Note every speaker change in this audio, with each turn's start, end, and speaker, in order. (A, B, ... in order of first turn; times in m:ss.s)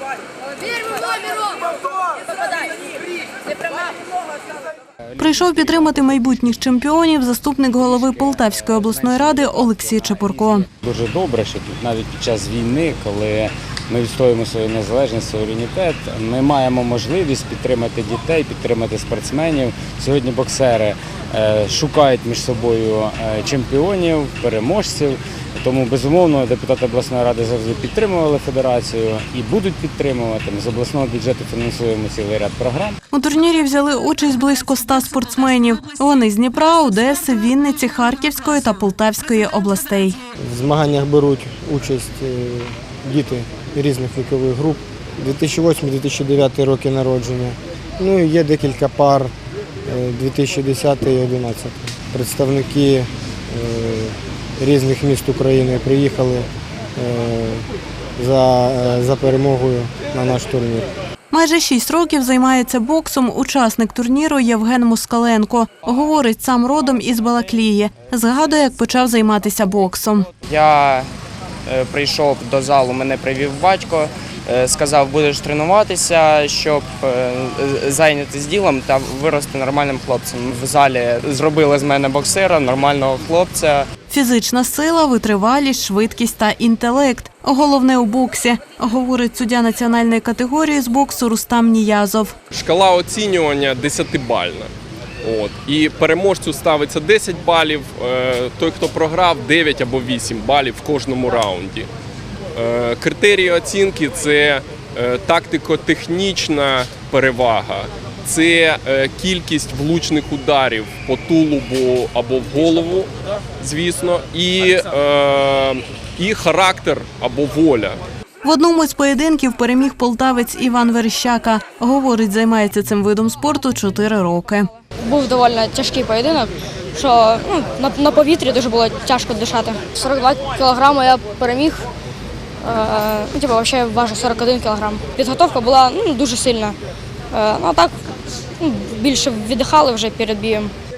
0:00.8-0:01.4 A
0:05.2-0:10.7 B
0:10.8-0:33.0 C
0:33.1-0:40.2 B
0:40.4-0:49.3 D
0:49.8-0:57.6 D
0:58.2-1:00.9 D
1:01.3-1:10.3 B
1:10.4-1:11.1 E
1:11.6-1:23.9 E
1:24.1-1:32.3 B
1:32.5-1:41.9 F
1:42.5-1:58.0 F
1:58.4-2:04.7 B
2:05.0-2:11.9 A
2:12.6-2:16.8 A
2:17.3-2:17.9 A
2:18.6-2:20.7 A